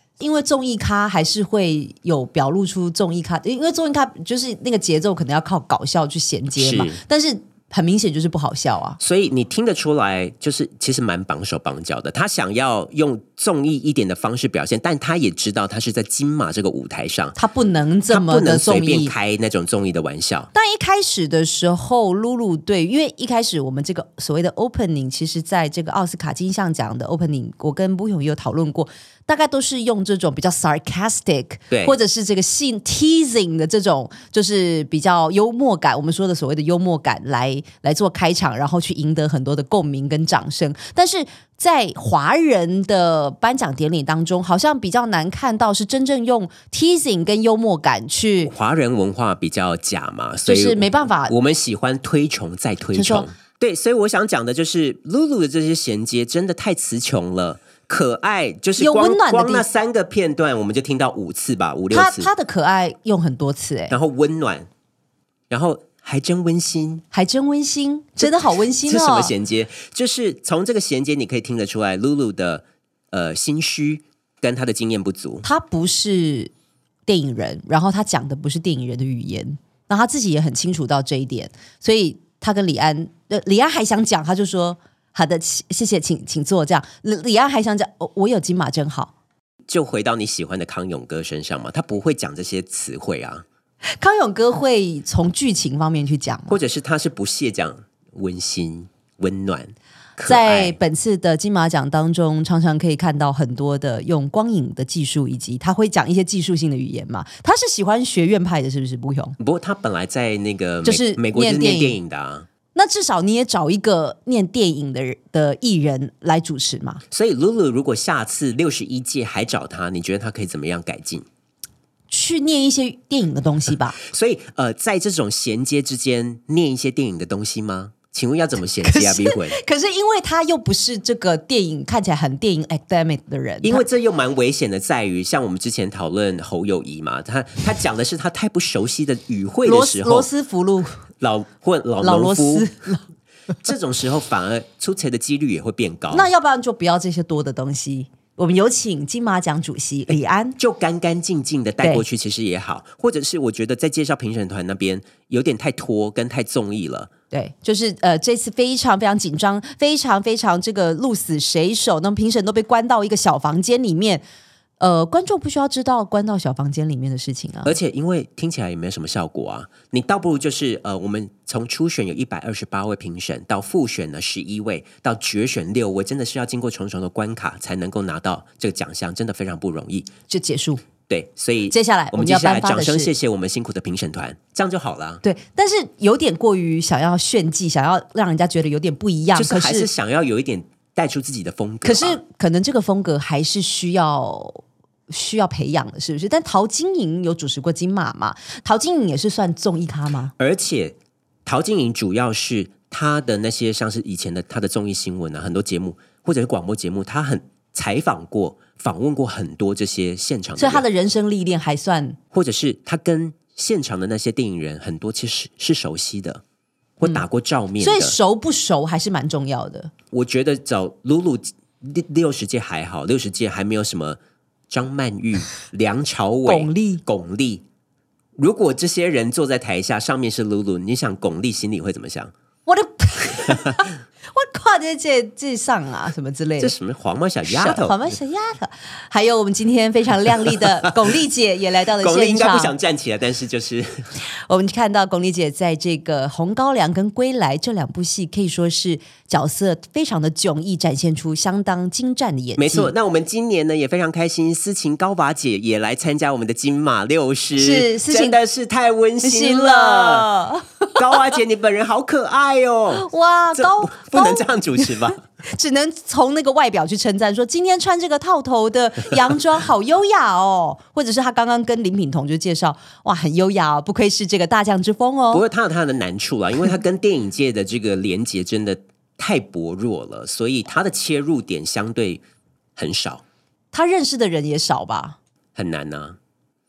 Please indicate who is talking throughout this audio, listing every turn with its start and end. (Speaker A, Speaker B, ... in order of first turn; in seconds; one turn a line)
Speaker A: 0.2-9.0
Speaker B: 6.6-7.0
Speaker B: 9.0-17.4
Speaker A: 17.4-19.1
Speaker B: 18.1-20.5
Speaker A: 20.5-48.5
Speaker B: 31.7-32.0
Speaker B: 48.4-62.3
Speaker A: 50.5-51.4
Speaker A: 52.9-53.3
Speaker A: 58.8-59.6
Speaker A: 61.9-64.0
Speaker B: 63.9-64.7
Speaker B: 65.5-67.0
Speaker A: 67.1-69.3
Speaker B: 68.2-75.4
Speaker A: 75.4-76.5
Speaker A: 77.1-89.1
Speaker B: 89.7-93.4
Speaker A: 94.0-96.6
Speaker B: 96.5-100.8
Speaker A: 100.2-109.3
Speaker B: 109.4-112.5
Speaker A: 110.8-112.0
Speaker A: 112.7-117.0
Speaker B: 117.1-121.2
Speaker A: 122.1-124.0
Speaker B: 124.0-129.6
Speaker A: 128.8-133.8
Speaker B: 133.6-140.3
Speaker A: 139.6-141.0
Speaker B: 141.2-142.7
Speaker A: 142.0-143.0
Speaker B: 143.6-146.3
Speaker A: 146.1-150.6
Speaker B: 150.6-157.1
Speaker A: 157.3-164.2
Speaker A: 164.8-167.7
Speaker B: 167.6-180.1
Speaker A: 180.3-180.8
Speaker B: 181.1-185.2
Speaker A: 181.7-183.1
Speaker A: 185.2-189.9
Speaker B: 189.3-192.2
Speaker A: 191.8-200.3
Speaker B: 200.4-210.8
Speaker A: 210.6-212.2
Speaker B: 212.3-216.4
Speaker B: 217.0-218.2
Speaker A: 217.8-219.9
Speaker B: 220.1-224.2
Speaker B: 224.7-227.6
Speaker A: 226.4-227.0
Speaker B: 228.4-232.3
Speaker A: 232.7-236.7
Speaker B: 236.6-237.9
Speaker A: 237.5-242.7
Speaker B: 242.0-244.1
Speaker A: 244.5-252.9
Speaker B: 252.6-260.2
Speaker A: 257.6-258.4
Speaker A: 259.2-260.9
Speaker B: 260.9-265.2
Speaker A: 263.0-264.9
Speaker A: 265.5-275.4
Speaker B: 275.3-282.2
Speaker B: 282.8-283.2
Speaker A: 283.7-285.2
Speaker B: 285.5-286.2